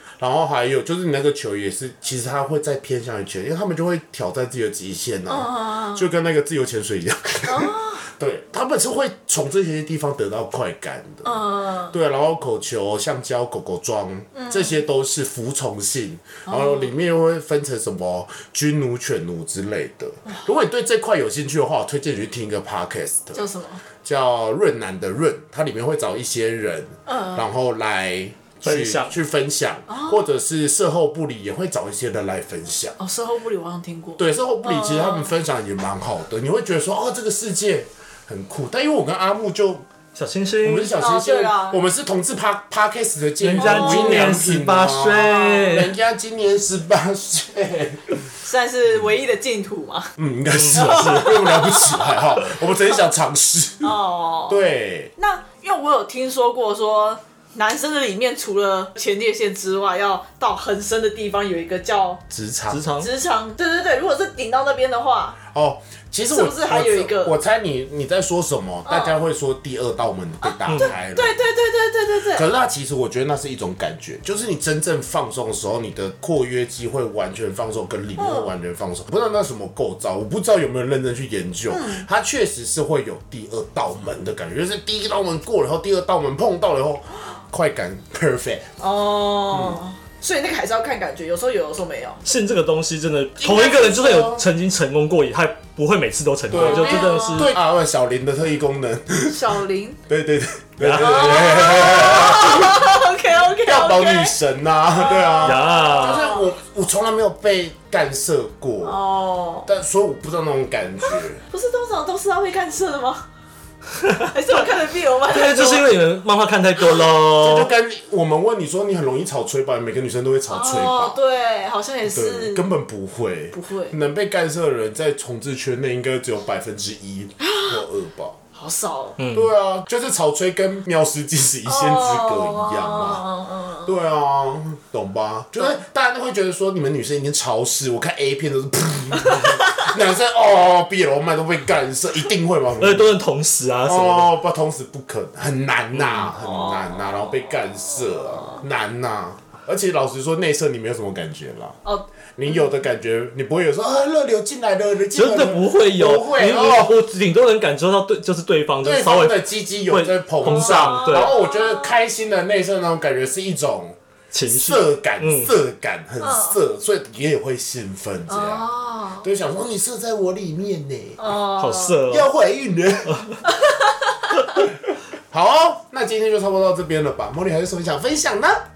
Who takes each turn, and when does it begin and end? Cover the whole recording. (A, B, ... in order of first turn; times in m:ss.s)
0:00.2-0:23.4 A
0:05.3-0:06.1 B
0:07.5-0:08.0 B
0:11.2-0:11.9 B
0:14.3-0:14.8 B
0:16.5-0:16.9 B
0:23.4-0:23.8 B
0:24.0-0:33.0 A
0:27.1-0:27.4 B
0:28.6-0:29.1 C
0:29.9-0:30.2 B
0:33.0-0:35.3 B
0:34.2-0:39.9 A
0:40.2-0:40.9 C
0:40.6-0:48.2 A
0:41.0-0:41.8 B
0:43.4-0:45.9 C
0:43.6-0:44.4 B
0:45.3-0:45.8 B
0:48.4-0:50.1 B
0:50.2-0:55.1 A
0:50.6-0:51.3 C
0:50.8-0:52.2 B
0:53.8-0:54.6 B
0:55.2-1:02.2 B
1:02.3-1:02.8 A
1:02.7-1:03.1 C
1:03.0-1:05.4 B
1:05.5-1:11.4 A
1:06.3-1:07.4 B
1:08.9-1:09.2 B
1:10.7-1:11.0 C
1:10.7-1:12.5 B
1:12.3-1:28.7 A
1:18.2-1:18.5 B
1:21.7-1:22.1 B
1:28.8-1:32.2 B
1:29.5-1:29.8 A
1:32.2-1:37.5 C
1:33.4-1:34.4 A
1:36.5-1:39.4 A
1:36.5-1:37.5 B
1:39.3-1:40.0 B
1:40.1-1:42.9 A
1:40.8-1:41.5 C
1:41.0-1:44.4 B
1:43.6-1:49.0 A
1:45.0-1:46.5 B
1:45.4-1:46.3 C
1:48.8-1:49.7 B
1:49.7-1:51.4 A
1:51.5-1:53.2 B
1:54.3-1:55.9 B
1:55.3-1:57.7 C
1:57.4-2:01.2 A
2:00.5-2:02.7 B
2:02.1-2:08.4 A
2:03.5-2:04.0 B
2:07.4-2:07.8 B
2:08.6-2:09.2 B
2:09.2-2:09.5 C
2:09.3-2:13.3 A
2:11.7-2:13.9 B
2:13.8-2:23.2 A
2:19.3-2:19.9 B
2:22.8-2:24.3 C
2:23.8-2:31.8 A
2:26.0-2:26.3 C
2:26.3-2:27.0 B
2:28.3-2:28.6 B
2:32.4-2:37.0 A
2:35.1-2:41.4 C
2:38.8-2:48.7 A
2:40.5-2:41.9 B
2:44.3-2:45.5 C
2:46.2-2:46.6 B
2:48.3-2:49.3 B
2:49.2-2:51.2 A
2:51.2-2:52.0 B
2:51.6-2:52.3 C
2:52.0-2:53.3 A
2:53.4-2:54.6 B
2:55.3-2:58.6 A